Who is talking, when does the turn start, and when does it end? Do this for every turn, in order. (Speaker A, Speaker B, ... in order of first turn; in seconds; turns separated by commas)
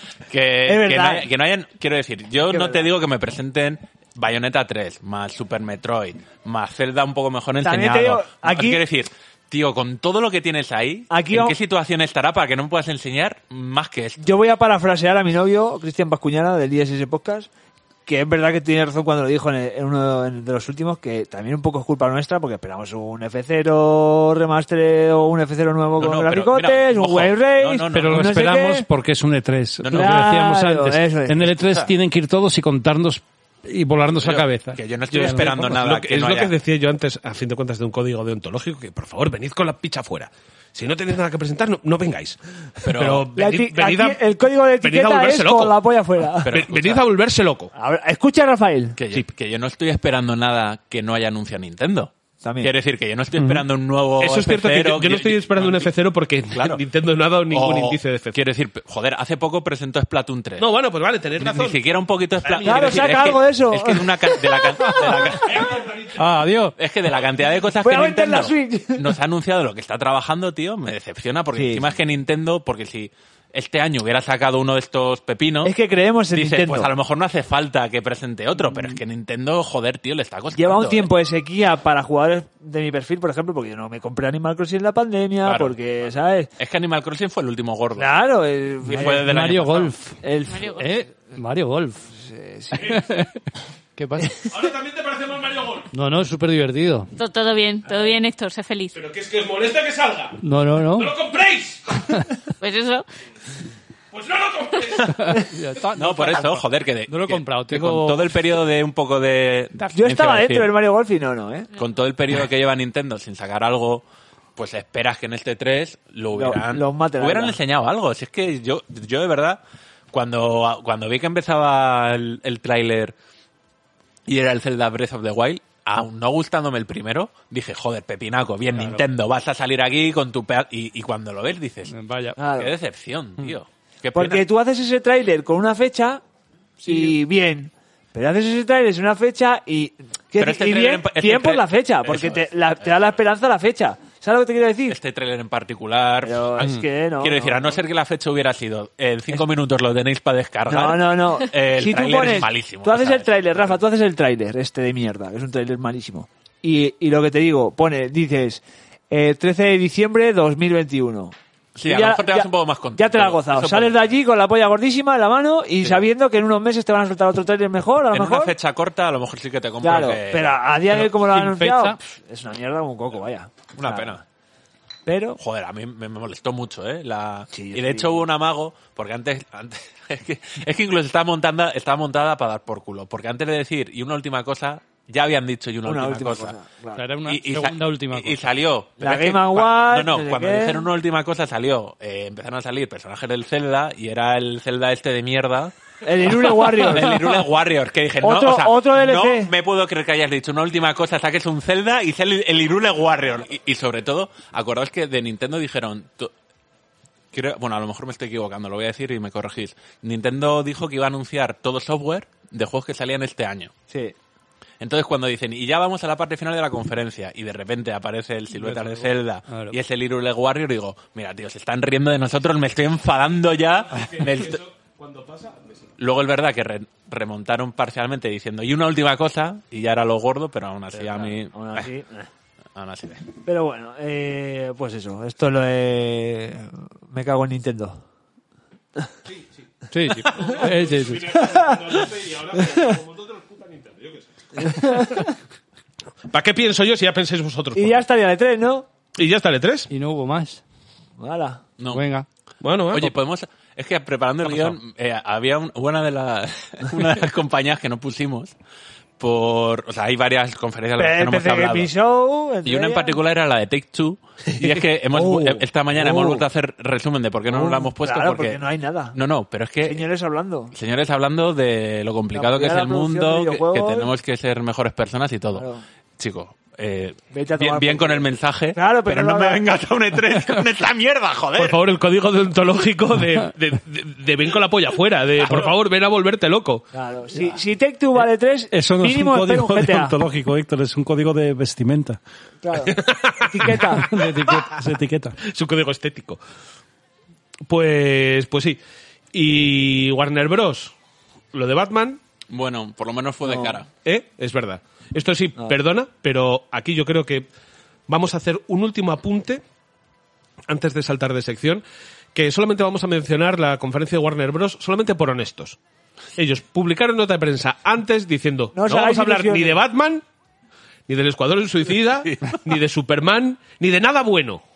Speaker A: 0.3-14.2, Speaker B: 0.7-1.3, Speaker B: 2.5-2.9, Speaker B: 7.6-8.8, Speaker B: 11.1-11.6, Speaker B: 14.2-17.5, Speaker B: 18.1-28.9, Speaker A: 26.0-28.2, Speaker C: 27.9-35.5, Speaker A: 29.8-30.3, Speaker B: 29.9-31.4, Speaker A: 31.4-31.9, Speaker A: 34.2-36.5, Speaker D: 35.1-44.2, Speaker A: 42.8-43.3, Speaker B: 43.4-46.5, Speaker D: 44.8-45.8, Speaker A: 46.4-47.0, Speaker D: 46.5-47.7, Speaker B: 47.7-49.0, Speaker A: 49.0-55.9, Speaker B: 52.4-52.7, Speaker C: 53.4-53.6, Speaker D: 54.2-58.4, Speaker A: 56.5-56.8, Speaker A: 57.5-60.7, Speaker D: 60.6-61.8, Speaker A: 61.4-65.7, Speaker D: 62.4-63.2, Speaker B: 62.6-64.3, Speaker D: 65.4-66.2, Speaker C: 66.2-66.7, Speaker A: 66.8-75.7, Speaker B: 67.8-69.0, Speaker B: 71.5-71.9, Speaker B: 75.6-76.9, Speaker A: 76.3-81.1, Speaker B: 80.5-86.5, Speaker A: 85.4-85.8, Speaker A: 86.6-88.1, Speaker B: 88.0-89.3, Speaker A: 88.8-89.9, Speaker E: 88.9-90.2, Speaker B: 90.2-90.7, Speaker F: 90.5-91.0, Speaker E: 90.8-92.1, Speaker B: 92.1-93.0, Speaker E: 92.8-93.4, Speaker E: 94.0-94.4, Speaker D: 94.4-95.9, Speaker E: 95.9-97.1, Speaker F: 97.1-99.0, Speaker D: 98.9-100.4, Speaker E: 100.4-101.1, Speaker D: 100.9-102.1, Speaker F: 102.6-103.0, Speaker D: 104.1-105.4, Speaker E: 105.0-108.3, Speaker A: 105.9-110.7, Speaker B: 109.9-111.7, Speaker A: 111.8-114.0, Speaker A: 114.5-119.6, Speaker B: 116.3-117.6, Speaker A: 120.1-123.1, Speaker A: 124.2-131.9, Speaker E: 128.8-129.0, Speaker E: 131.9-132.4, Speaker B: 132.4-132.7, Speaker A: 132.5-134.5, Speaker B: 134.1-136.2, Speaker B: 136.8-145.0, Speaker A: 140.4-142.5, Speaker A: 144.9-153.8, Speaker B: 146.2-147.8, Speaker B: 150.7-168.5, Speaker A: 161.7-164.1, Speaker A: 168.1-170.6, Speaker B: 169.8-174.2, Speaker E: 170.9-172.0, Speaker A: 173.8-174.2, Speaker B: 175.1-175.4, Speaker A: 175.4-186.5, Speaker B: 177.5-178.3, Speaker B: 185.8-187.0, Speaker E: 186.9-188.4, Speaker A: 187.2-195.7, Speaker B: 189.0-190.9, Speaker B: 196.0-197.2, Speaker A: 196.2-206.3, Speaker B: 198.2-199.5, Speaker A: 207.3-213.7, Speaker B: 213.9-214.1, Speaker A: 214.8-224.6, Speaker E: 218.6-219.8, Speaker D: 223.9-225.9, Speaker A: 226.0-231.9, Speaker B: 230.9-232.3, Speaker A: 232.7-233.2, Speaker B: 233.4-238.0, Speaker E: 239.9-241.4, Speaker D: 240.2-245.3, Speaker B: 244.6-245.2, Speaker D: 246.3-248.0, Speaker B: 247.7-248.8, Speaker D: 249.2-249.9, Speaker E: 249.9-250.6, Speaker B: 251.2-251.6, Speaker A: 251.8-252.0, Speaker E: 251.9-252.2, Speaker D: 252.6-253.1, Speaker A: 252.9-258.5, Speaker A: 259.2-261.9, Speaker B: 261.0-263.2, Speaker A: 262.6-268.6, Speaker B: 265.1-266.4, Speaker B: 267.5-269.1, Speaker A: 269.1-270.1, Speaker B: 269.8-270.7, Speaker A: 270.7-275.7, Speaker B: 272.3-274.1, Speaker B: 275.5-275.8, Speaker A: 276.2-281.8, Speaker B: 277.3-279.6, Speaker D: 281.6-286.8, Speaker B: 286.9-290.1, Speaker C: 288.7-292.2, Speaker B: 292.6-294.1, Speaker D: 292.9-294.6, Speaker C: 293.6-295.4, Speaker D: 295.4-296.4, Speaker D: 297.6-298.8, Speaker D: 299.3-300.9, Speaker D: 301.5-302.2, Speaker A: 302.5-303.9, Speaker B: 303.4-303.8, Speaker D: 304.0-307.5, Speaker D: 308.1-309.6, Speaker D: 310.7-311.8, Speaker D: 312.3-315.8, Speaker D: 316.4-320.2, Speaker B: 318.8-319.8, Speaker D: 321.1-324.6, Speaker A: 322.2-322.6